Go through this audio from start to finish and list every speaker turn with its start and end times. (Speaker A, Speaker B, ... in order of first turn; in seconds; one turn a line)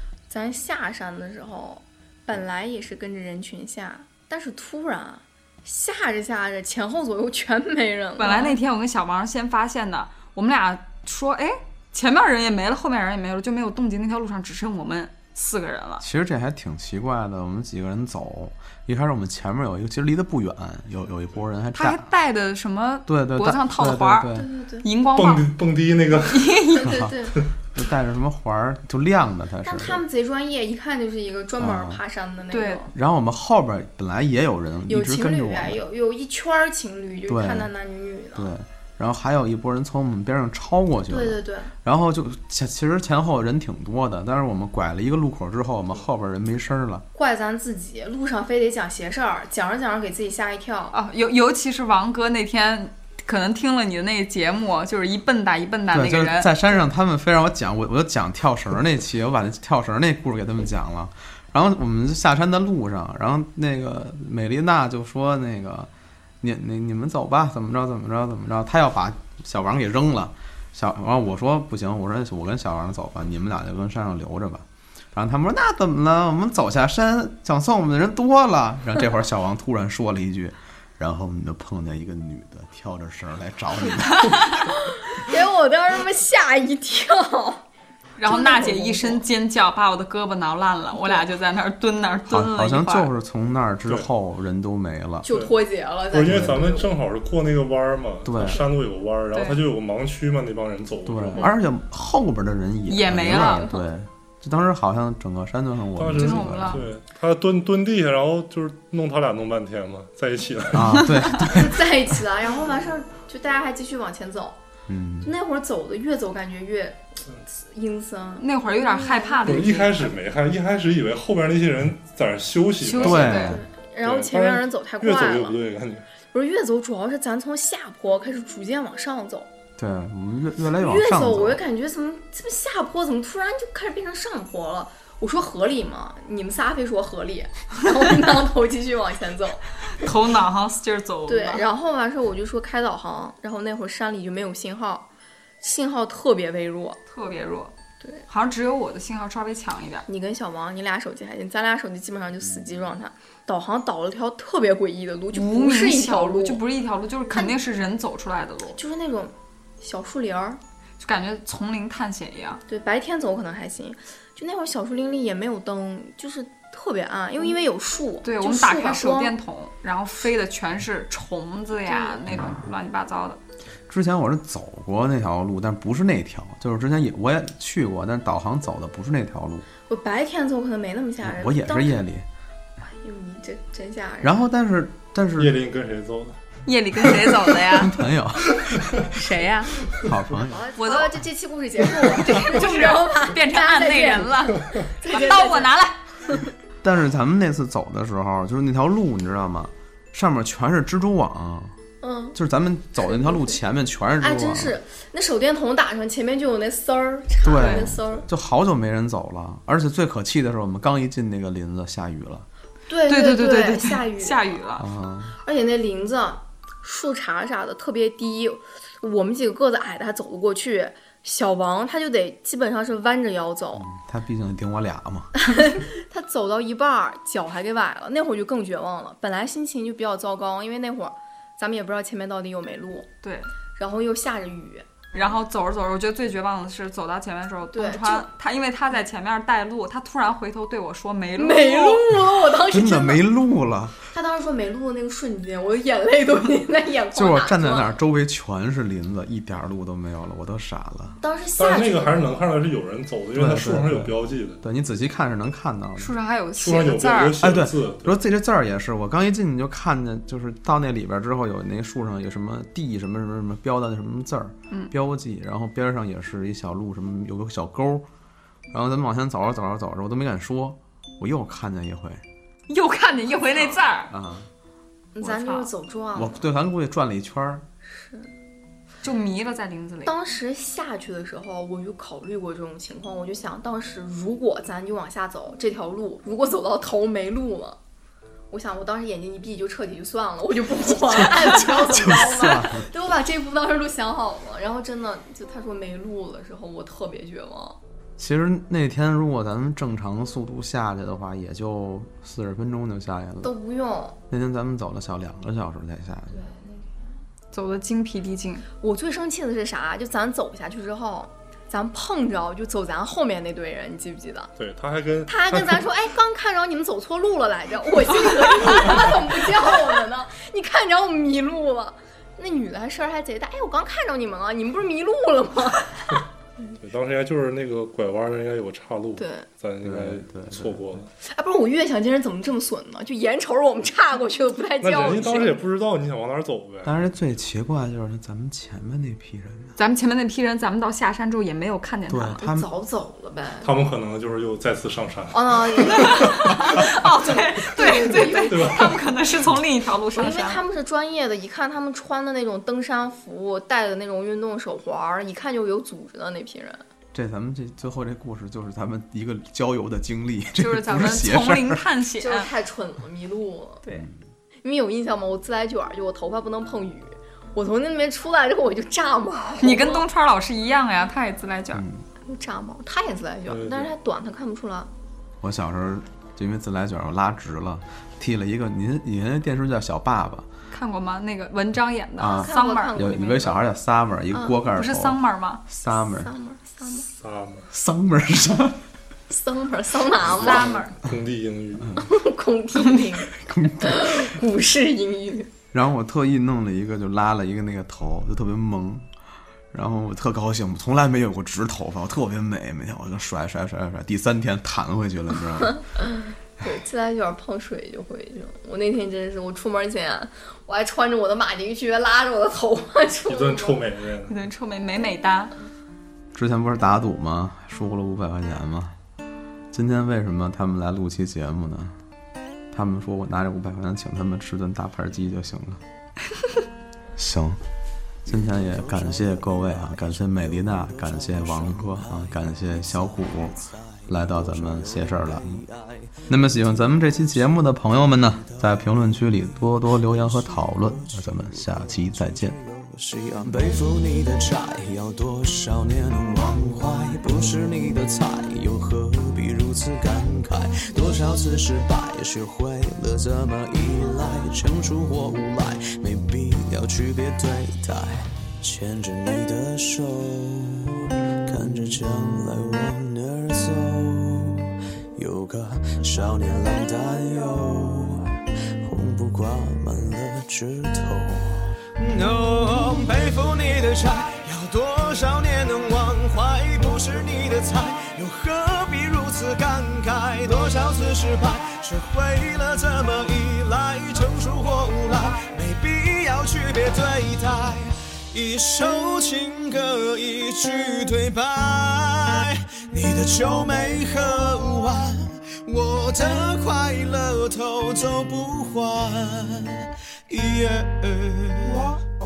Speaker A: 0.3-8.6
Speaker B: 8.2-16.0
Speaker C: 16.0-22.1
Speaker B: 21.7-25.6
Speaker C: 23.1-24.5
Speaker A: 24.3-24.9
Speaker D: 25.1-26.6
Speaker B: 26.1-27.1
Speaker A: 26.7-27.4
Speaker C: 26.8-27.1
Speaker C: 27.7-30.0
Speaker A: 29.6-32.9
Speaker C: 31.6-32.0
Speaker B: 32.5-32.8
Speaker C: 32.9-35.8
Speaker A: 34.9-38.5
Speaker C: 37.3-37.7
Speaker C: 38.3-47.0
Speaker A: 41.1-41.7
Speaker A: 47.1-50.9
Speaker B: 50.9-56.6
Speaker C: 55.9-65.9
Speaker C: 66.4-84.7
Speaker A: 84.6-87.6
Speaker B: 88.2-93.1
Speaker A: 88.2-89.2
Speaker A: 91.0-91.2
Speaker C: 92.3-95.3
Speaker A: 95.2-96.9
Speaker D: 95.3-95.5
Speaker D: 96.1-101.5
Speaker C: 96.3-96.5
Speaker C: 98.2-98.7
Speaker B: 99.3-99.7
Speaker C: 101.0-106.8
Speaker B: 102.9-103.7
Speaker A: 103.3-103.8
Speaker D: 106.0-111.5
Speaker B: 106.1-106.9
Speaker C: 110.7-111.8
Speaker A: 111.5-114.6
Speaker C: 114.9-115.3
Speaker A: 115.2-120.0
Speaker B: 118.4-120.1
Speaker D: 119.4-126.1
Speaker B: 122.8-123.6
Speaker C: 123.0-123.6
Speaker A: 123.0-125.6
Speaker A: 126.3-129.5
Speaker C: 129.8-131.6
Speaker A: 130.8-140.1
Speaker B: 139.9-141.7
Speaker A: 141.3-145.1
Speaker A: 145.6-147.0
Speaker B: 147.1-147.7
Speaker B: 148.3-150.1
Speaker A: 150.1-156.6
Speaker B: 155.3-158.8
Speaker A: 158.8-160.6
Speaker B: 161.0-162.6
Speaker A: 162.7-169.4
Speaker B: 168.2-173.4
Speaker A: 171.9-172.2
Speaker C: 173.9-179.7
Speaker A: 179.9-182.0
Speaker C: 181.2-182.2
Speaker A: 182.8-184.4
Speaker C: 184.2-185.6
Speaker D: 185.4-186.4
Speaker B: 186.7-188.0
Speaker C: 187.7-189.0
Speaker B: 189.0-189.8
Speaker C: 190.0-190.7
Speaker A: 190.5-195.7
Speaker B: 190.8-191.1
Speaker B: 191.9-196.0
Speaker A: 196.2-196.5
Speaker C: 196.8-201.8
Speaker A: 202.0-202.4
Speaker C: 202.3-204.7
Speaker A: 203.0-203.6
Speaker A: 204.2-208.3
Speaker C: 207.4-212.5
Speaker B: 207.5-208.0
Speaker A: 212.9-214.6
Speaker B: 213.1-214.8
Speaker C: 214.8-215.3
Speaker A: 215.4-223.9
Speaker C: 223.8-225.8
Speaker A: 225.4-233.1
Speaker B: 233.2-233.5
Speaker A: 233.8-235.1
Speaker B: 235.1-242.3
Speaker A: 237.7-238.3
Speaker A: 241.4-243.3
Speaker C: 242.7-244.1
Speaker A: 244.1-247.9
Speaker C: 247.1-251.2
Speaker A: 251.2-252.3
Speaker D: 251.6-254.6
Speaker C: 253.3-256.1
Speaker B: 256.0-257.4
Speaker D: 256.6-258.2
Speaker C: 257.4-268.1
Speaker C: 268.7-272.2
Speaker B: 272.7-274.1
Speaker C: 274.1-274.5
Speaker A: 275.1-276.4
Speaker B: 275.2-275.7
Speaker C: 276.1-277.6
Speaker A: 277.8-278.3
Speaker B: 279.0-280.1
Speaker A: 280.0-287.8
Speaker A: 288.5-297.8
Speaker C: 291.1-292.9
Speaker C: 298.2-303.5
Speaker A: 303.4-304.2
Speaker C: 304.3-306.4
Speaker A: 306.3-307.1
Speaker B: 307.5-308.6
Speaker A: 308.8-314.5
Speaker D: 314.6-315.9
Speaker A: 315.3-326.2
Speaker D: 326.8-331.1
Speaker A: 329.2-329.5
Speaker C: 329.8-331.1
Speaker A: 331.2-335.6
Speaker D: 334.8-337.1
Speaker C: 336.8-339.8
Speaker B: 339.8-342.4
Speaker C: 342.1-342.7
Speaker A: 342.4-343.7
Speaker D: 343.6-346.2
Speaker A: 345.3-349.0
Speaker B: 345.8-350.6
Speaker D: 348.5-349.0
Speaker A: 350.1-356.8
Speaker C: 357.1-361.8
Speaker B: 360.6-362.5
Speaker A: 362.2-363.8
Speaker C: 363.9-364.2
Speaker A: 364.6-370.0
Speaker B: 369.6-371.9
Speaker C: 371.7-372.0
Speaker A: 372.2-374.9
Speaker D: 373.5-373.9
Speaker C: 375.4-380.5
Speaker B: 380.7-383.6
Speaker C: 382.2-386.3
Speaker A: 382.3-383.6
Speaker B: 384.7-385.6
Speaker A: 386.0-387.1
Speaker D: 387.1-387.7
Speaker C: 387.7-388.8
Speaker A: 389.3-390.8
Speaker B: 390.2-391.0
Speaker D: 390.4-392.1
Speaker A: 392.0-395.5
Speaker C: 393.3-394.3
Speaker C: 395.7-399.1
Speaker C: 399.7-405.8
Speaker A: 405.7-413.8
Speaker D: 413.3-414.3
Speaker B: 414.3-415.5
Speaker C: 416.3-419.0
Speaker C: 419.7-422.0
Speaker C: 422.7-425.8
Speaker C: 427.1-427.6
Speaker C: 428.2-435.6
Speaker E: 428.3-502.0
Speaker C: 436.3-442.6